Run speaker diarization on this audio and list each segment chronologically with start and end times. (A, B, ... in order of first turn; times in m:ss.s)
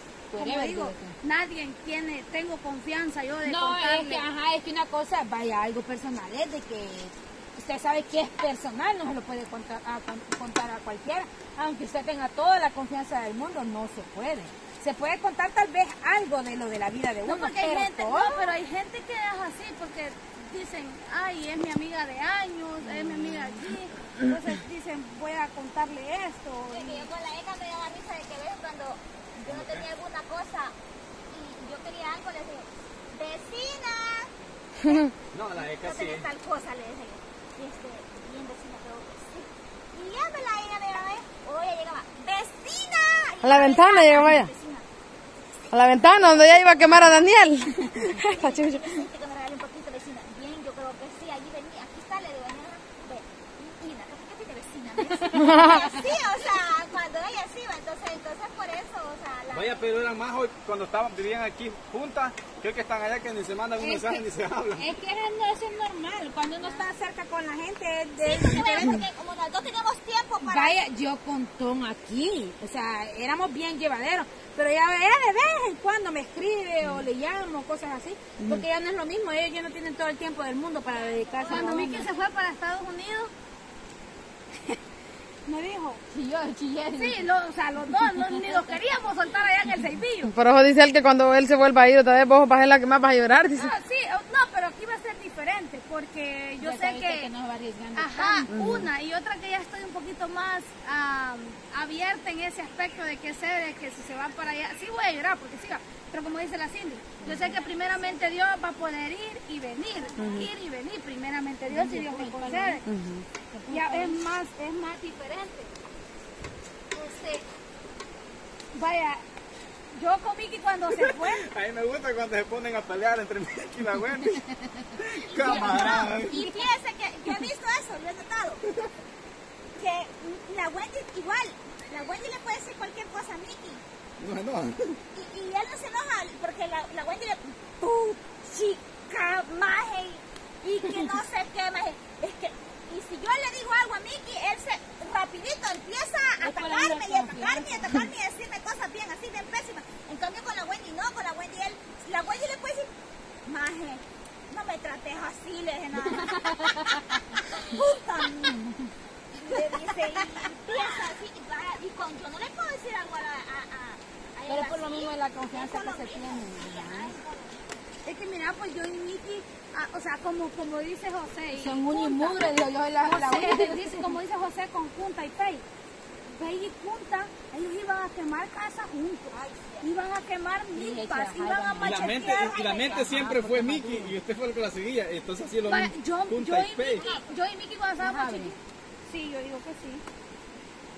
0:00.3-0:01.1 A
0:00.3-0:04.2 B
0:03.4-0:18.5 A
0:17.2-0:27.1 B
0:26.7-0:30.7 C
0:29.5-0:29.9 D
0:31.3-0:34.3 C
0:34.8-0:44.8 C
0:35.3-0:36.2 D
0:43.4-0:44.5 E
0:45.7-0:48.9 E
0:45.8-0:59.9 C
0:55.2-0:55.8 A
0:55.3-0:55.9 E
0:59.5-1:04.9 D
1:03.8-1:09.0 A
1:08.2-1:10.8 C
1:10.4-1:22.1 A
1:18.4-1:18.6 E
1:20.8-1:22.2 C
1:21.4-1:23.3 B
1:25.4-1:26.0 B
1:26.1-1:27.3 A
1:26.9-1:30.3 B
1:27.8-1:28.7 A
1:30.2-1:33.7 E
1:33.6-1:37.3 B
1:36.6-1:38.5 A
1:37.9-1:52.8 B
1:38.5-1:38.9 E
1:47.2-1:48.3 A
1:50.2-1:50.4 A
1:50.2-1:50.5 E
1:51.7-1:52.8 A
1:52.8-1:53.2 E
1:53.5-1:54.2 A
1:53.7-1:55.7 B
1:56.9-1:57.4 A
1:58.7-1:59.2 B
1:59.9-2:01.4 B
2:00.9-2:04.4 D
2:05.0-2:06.4 D
2:05.3-2:06.7 A
2:05.4-2:08.6 C
2:09.8-2:13.8 C
2:14.2-2:15.0 D
2:15.1-2:32.9 C
2:26.4-2:28.1 A
2:33.4-2:38.6 C
2:36.2-2:36.8 A
2:38.4-2:38.9 A
2:39.3-2:47.8 C
2:44.5-2:47.2 A
2:48.0-2:52.5 B
2:51.6-2:54.2 A
2:53.0-2:55.6 B
2:56.3-3:02.7 B
2:59.4-2:59.8 C
3:00.7-3:04.2 A
3:01.8-3:07.1 D
3:02.3-3:03.0 C
3:05.7-3:10.0 B
3:07.0-3:07.3 C
3:08.0-3:08.6 A